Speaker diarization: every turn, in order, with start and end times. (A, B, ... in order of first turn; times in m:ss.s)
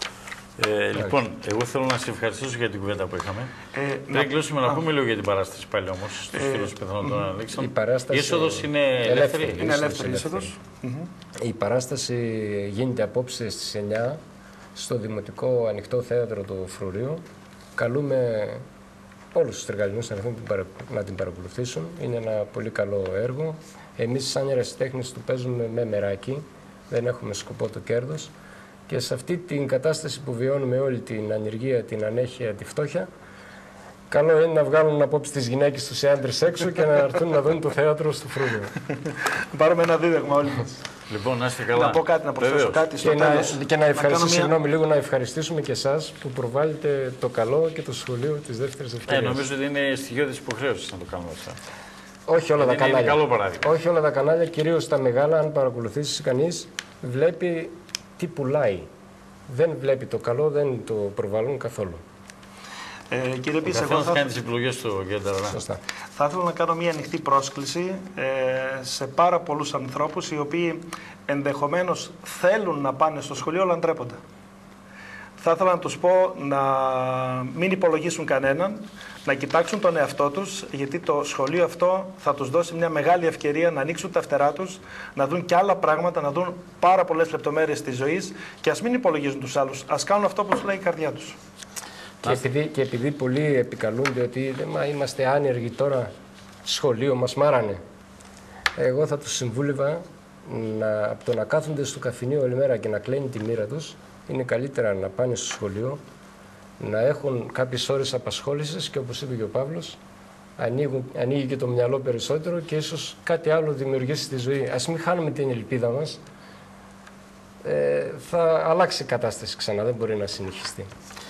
0:00.6-0:03.5 A
0:03.7-0:04.8 B
0:04.1-0:09.7 A
0:06.3-0:07.2 B
0:07.6-0:10.5 C
0:09.6-0:11.1 B
0:11.4-0:14.2 C
0:14.8-0:17.2 C
0:17.8-0:18.6 C
0:19.3-0:28.3 C
0:28.9-0:33.1 C
0:34.1-0:38.7 C
0:39.0-0:40.8 B
0:41.1-0:42.8 A
0:41.7-0:44.5 B
0:43.0-0:49.5 C
0:49.1-0:51.6 A
0:52.3-0:58.9 C
0:52.6-0:53.7 A
0:59.5-1:02.0 C
1:03.1-1:04.3 B
1:03.6-1:05.6 A
1:05.5-1:05.8 C
1:06.2-1:14.2 B
1:15.4-1:31.4 B
1:32.2-1:36.1 C
1:36.6-1:37.8 C
1:38.8-1:46.0 C
1:46.8-1:50.0 C
1:50.6-1:56.2 C
1:57.6-2:00.9 C